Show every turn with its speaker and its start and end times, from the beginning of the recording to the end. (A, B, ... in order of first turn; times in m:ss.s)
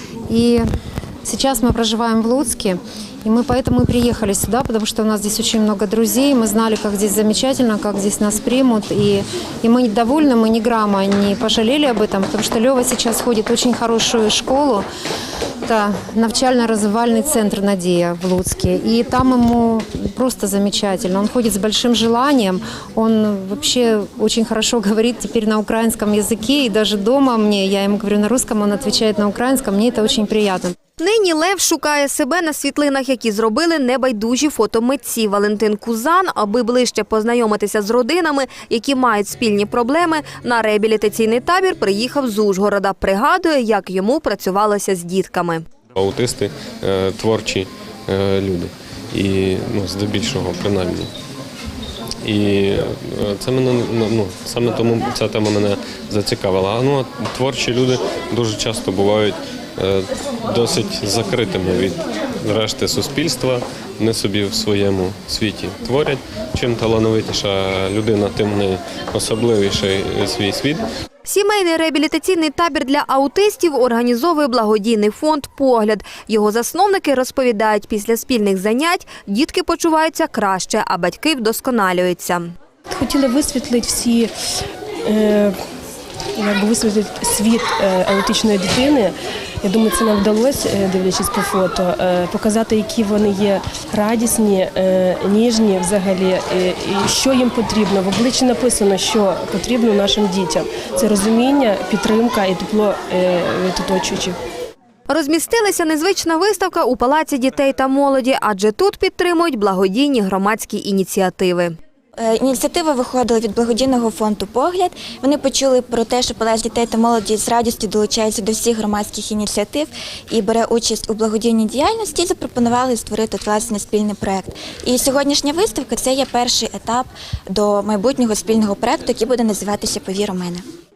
0:00.3-0:00.6 A
0:01.2-0:14.8 A
0:15.7-0:30.7 A
0:31.0-0:45.6 B
0:46.0-0:51.1 C
0:52.2-1:10.8 C
1:11.2-1:22.5 B
1:22.9-1:24.3 D
1:25.0-1:25.6 D
1:26.4-1:44.4 D
1:45.1-1:51.7 B
1:52.2-2:10.6 E